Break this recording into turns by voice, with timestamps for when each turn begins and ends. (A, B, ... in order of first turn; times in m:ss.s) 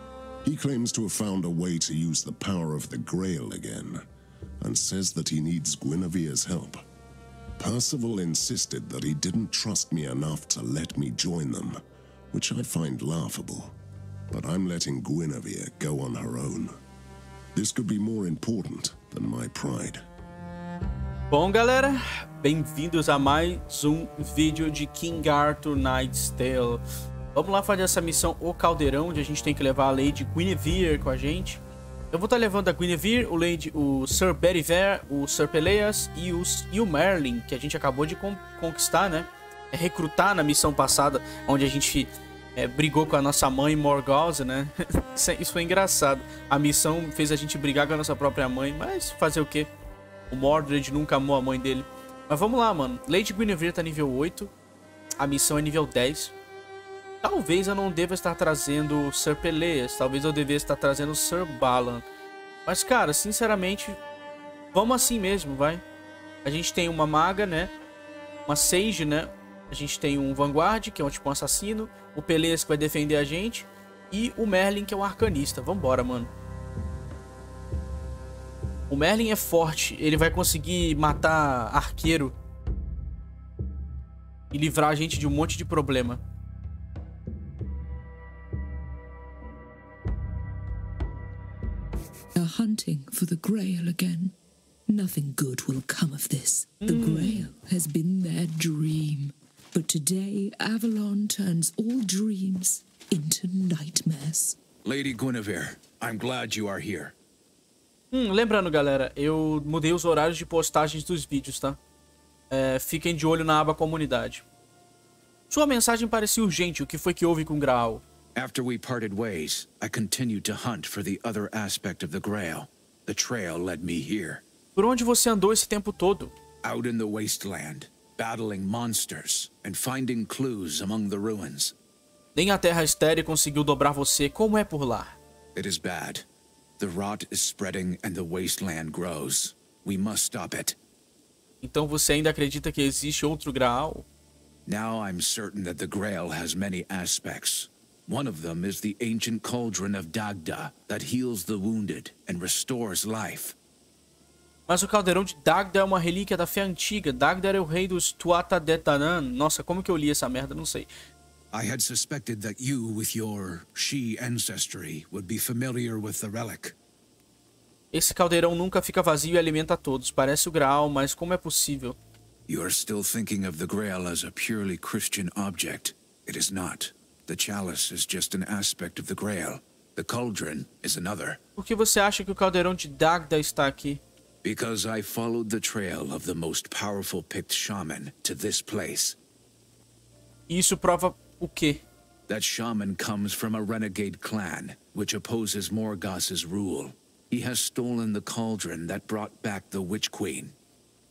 0:00.4-0:04.0 A
0:04.6-0:06.8 A
0:07.6-0:11.8 A
0:12.3-0:13.7 A
0:14.3-0:16.7 A
0:17.6-0:20.0 A
0:21.3-0:26.8 B
0:27.3-0:31.6 B
0:32.1-0:49.7 B
0:50.3-0:54.5 B
0:55.2-0:56.3 B
0:57.2-1:02.1 B
1:02.7-1:04.0 B
1:04.7-1:05.8 B
1:06.4-1:07.7 B
1:08.5-1:16.3 B
1:18.9-1:22.4 B
1:24.5-1:26.2 B
1:32.4-1:34.4 C
1:34.9-1:44.6 C
1:36.8-1:37.5 B
1:44.8-1:47.2 D
1:48.1-1:51.8 B
1:52.5-1:54.4 B
1:55.5-1:58.0 B
1:58.4-2:04.4 D
2:04.8-2:06.3 B
2:06.6-2:11.8 D
2:12.4-2:15.2 B
2:15.6-2:16.3 D
2:16.8-2:20.8 D
2:21.6-2:24.1 B
2:24.7-2:33.6 D
2:34.7-2:40.9 B
2:41.5-2:46.8 D
2:47.9-2:52.0 B
2:52.5-3:01.4 D
3:01.6-3:04.0 B
3:04.4-3:09.2 D
3:10.5-3:11.8 B
3:12.3-3:20.6 D